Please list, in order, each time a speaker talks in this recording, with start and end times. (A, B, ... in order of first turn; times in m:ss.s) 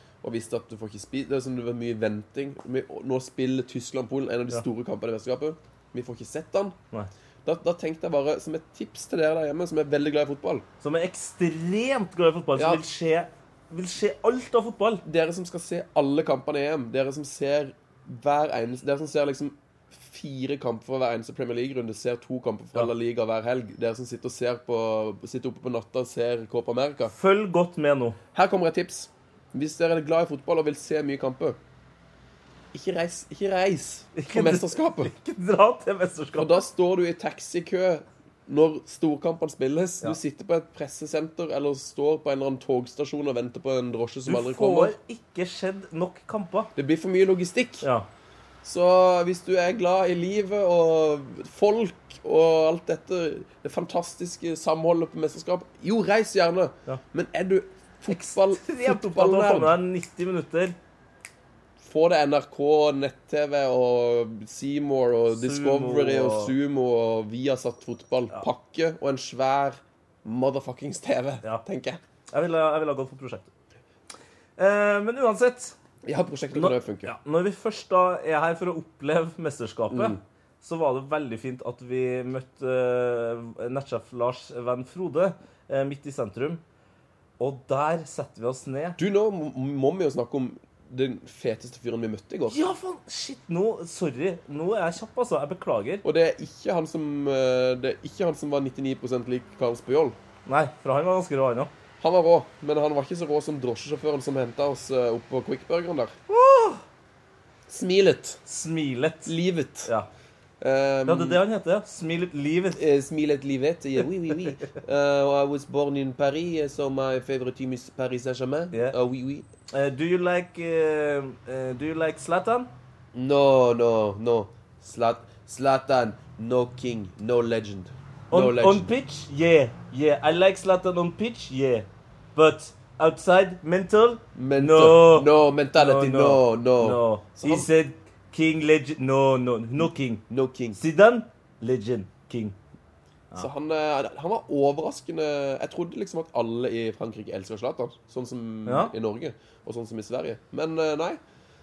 0:00.2-0:06.8 A
0:07.4-0:10.6 A
0:10.8-0:15.0 B
0:12.6-0:12.8 A
0:15.0-0:27.1 A
0:27.1-0:28.2 B
0:28.3-0:31.6 A
0:32.7-0:35.1 A
0:34.2-0:36.6 B
0:36.4-0:45.0 A
0:44.3-0:46.7 B
0:46.8-0:47.9 A
0:47.8-0:48.1 B
0:48.6-0:59.8 A
0:58.1-1:00.8 B
1:01.8-1:12.0 A
1:05.3-1:06.6 B
1:12.3-1:13.5 B
1:14.6-1:15.8 B
1:16.0-1:17.2 A
1:16.5-1:26.6 B
1:19.9-1:20.2 A
1:27.4-1:29.0 B
1:29.0-1:32.6 A
1:32.5-1:36.0 B
1:36.0-1:40.2 A
1:40.5-1:41.7 B
1:42.0-1:46.2 A
1:46.3-1:46.8 B
1:47.7-1:48.4 A
1:48.5-1:50.1 B
1:49.3-1:49.9 A
1:50.6-1:51.4 A
1:51.1-1:52.8 B
1:52.8-1:59.5 A
1:59.7-2:02.7 B
2:03.1-2:08.9 A
2:08.3-2:20.2 B
2:14.4-2:17.7 A
2:20.3-2:20.8 A
2:20.8-2:22.6 B
2:23.4-2:31.2 A
2:28.7-2:28.9 B